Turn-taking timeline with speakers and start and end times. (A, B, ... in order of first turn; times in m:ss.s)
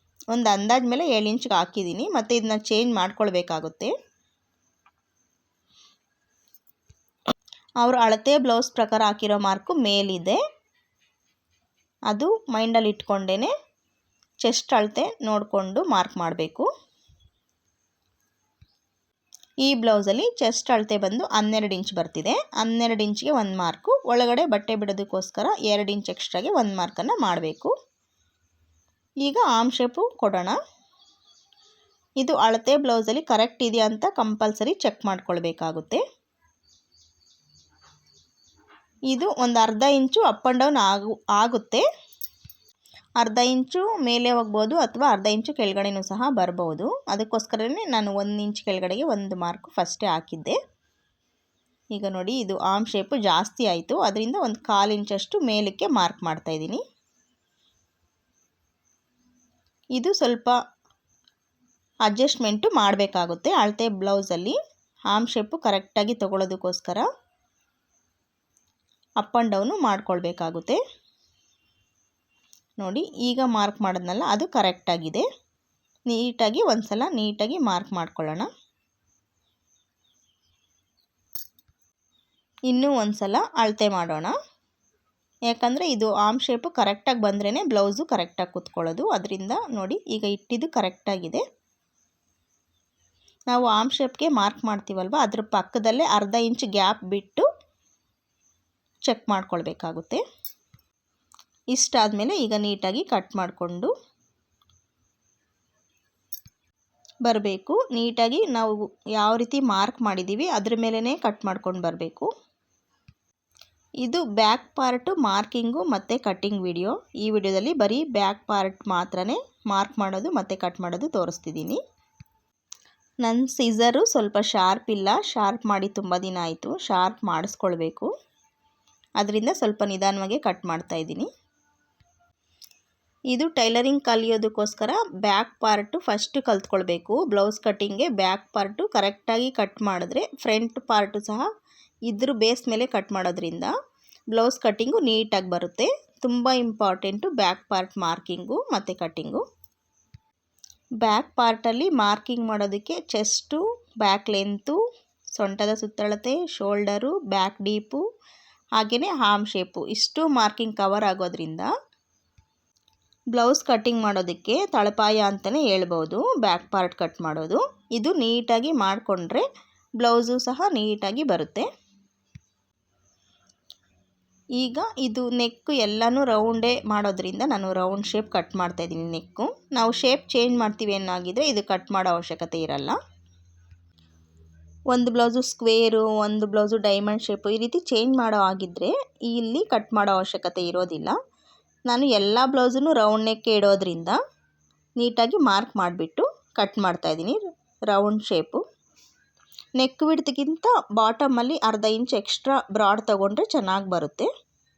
0:00.3-0:03.9 A
0:07.8-0:10.4 A
0:12.1-0:13.5 A
0:14.4-0:16.7 A
0:19.6-0:27.7 A
0:29.2-0:30.6 A
0:32.2-0:36.0 A
0:39.1-0:41.8 A
0:43.2-0:50.6 A
0:51.9-0:56.8 A
1:00.0-1:00.6 A
1:02.0-1:04.6 A
1:05.1-1:07.0 A
1:09.2-1:10.8 A
1:12.8-1:15.2 A
1:16.1-1:18.5 A
1:22.7-1:24.3 A
1:25.5-1:31.4 A
1:33.5-1:37.5 A
1:39.0-1:40.2 A
1:41.7-1:43.9 A
1:47.2-1:52.3 A
1:54.0-2:01.8 A
2:03.2-2:08.1 A
2:09.2-2:11.3 A
2:13.3-2:21.4 A
2:22.1-2:23.7 A
2:24.3-2:29.4 A
2:31.0-2:34.8 A
2:35.3-2:38.0 A
2:38.8-2:41.7 A
2:43.3-2:49.4 A
2:50.0-2:51.7 A
2:54.6-3:03.0 A
3:04.9-3:11.2 A
3:11.9-3:14.2 A
3:15.0-3:18.6 A
3:19.8-3:24.3 A